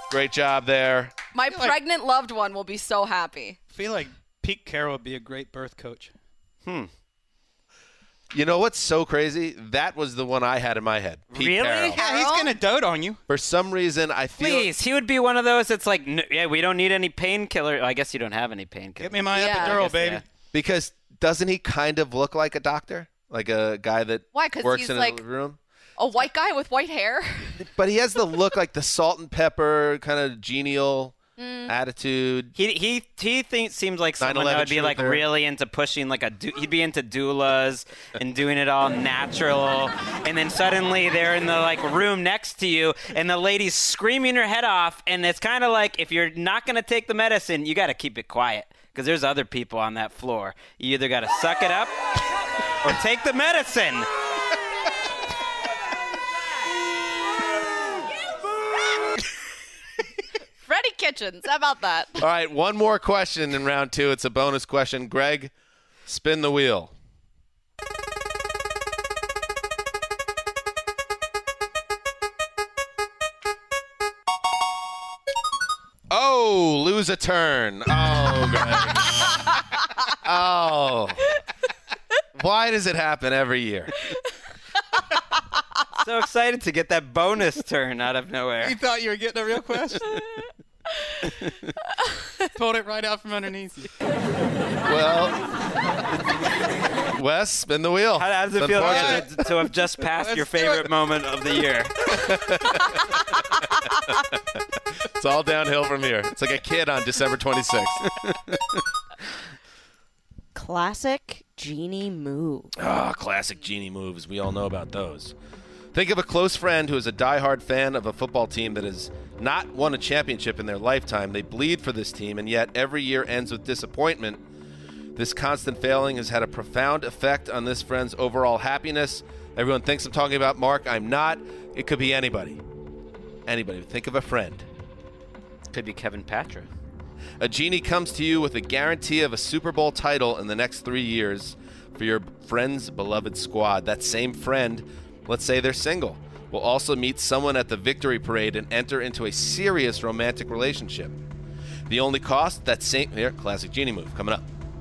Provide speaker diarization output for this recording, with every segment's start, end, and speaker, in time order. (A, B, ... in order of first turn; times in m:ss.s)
0:00.1-0:01.1 A
0:01.3-0:03.6 B
0:01.5-0:01.8 C
0:03.7-0:06.1 C
0:08.3-0:12.0 A
0:11.3-0:12.0 D
0:12.0-0:12.6 B
0:12.0-0:13.2 C
0:13.3-0:14.7 A
0:14.4-0:20.2 D
0:19.0-0:20.2 C
0:19.3-0:19.8 B
0:20.5-0:25.6 A
0:24.3-0:25.2 B
0:26.0-0:27.6 B
0:27.6-0:32.5 A
0:31.4-0:31.7 B
0:32.6-0:51.9 D
0:34.2-0:35.2 A
0:52.8-0:54.1 D
1:00.6-1:02.2 B
1:02.2-1:05.5 A
1:06.0-1:06.9 A
1:16.1-1:19.6 A
1:20.2-1:21.3 A
1:22.3-1:24.0 A
1:26.0-1:28.8 D
1:28.6-1:30.1 C
1:32.6-1:33.9 C
1:34.8-1:35.4 A
1:37.1-1:39.2 A
1:38.2-1:42.2 D
1:38.7-1:39.4 C
1:40.1-1:40.9 C
1:42.2-1:43.0 A
1:45.0-1:48.2 A
1:50.5-1:52.7 E
1:52.8-1:55.3 A
1:55.9-2:04.4 A
2:05.2-2:12.6 A
2:13.4-2:14.7 A
2:15.7-2:16.7 D
2:17.4-2:31.1 A
2:31.9-2:34.4 A